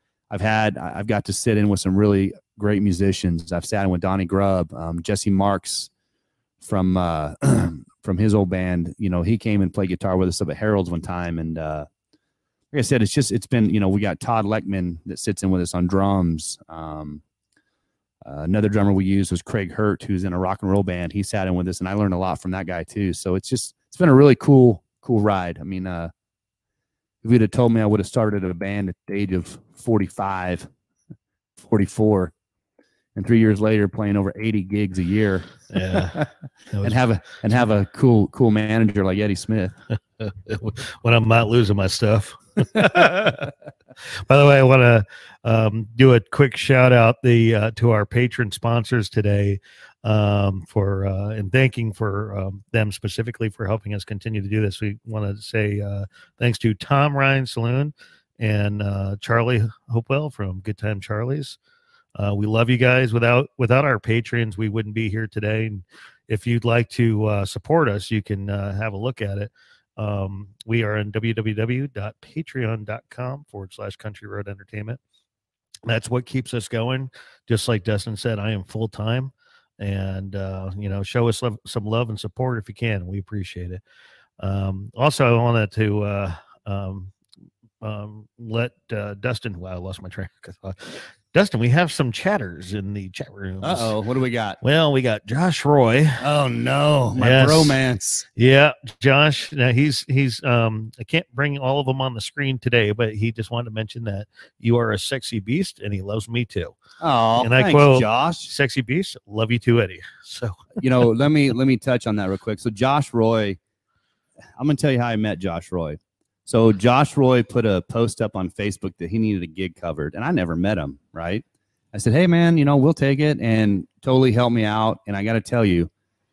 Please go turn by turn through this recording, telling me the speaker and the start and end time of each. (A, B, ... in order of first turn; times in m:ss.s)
0:00.3-0:05.9 A
0:06.6-0:11.9 A
0:12.7-0:17.2 A
0:18.3-0:26.1 A
0:27.2-0:30.7 A
0:31.6-0:32.3 A
0:33.2-0:36.3 A
0:35.7-0:37.0 B
0:36.8-0:39.7 A
0:40.2-0:43.5 B
0:44.1-1:01.6 B
1:02.2-1:15.0 B
1:15.9-1:23.8 B
1:24.4-1:27.1 B
1:27.8-1:34.0 B
1:33.6-1:34.6 A
1:34.6-1:36.2 B
1:36.2-1:38.2 A
1:37.2-1:37.8 B
1:38.4-1:46.8 B
1:47.0-1:48.5 A
1:47.4-1:51.1 B
1:50.8-1:53.6 A
1:54.6-2:05.9 A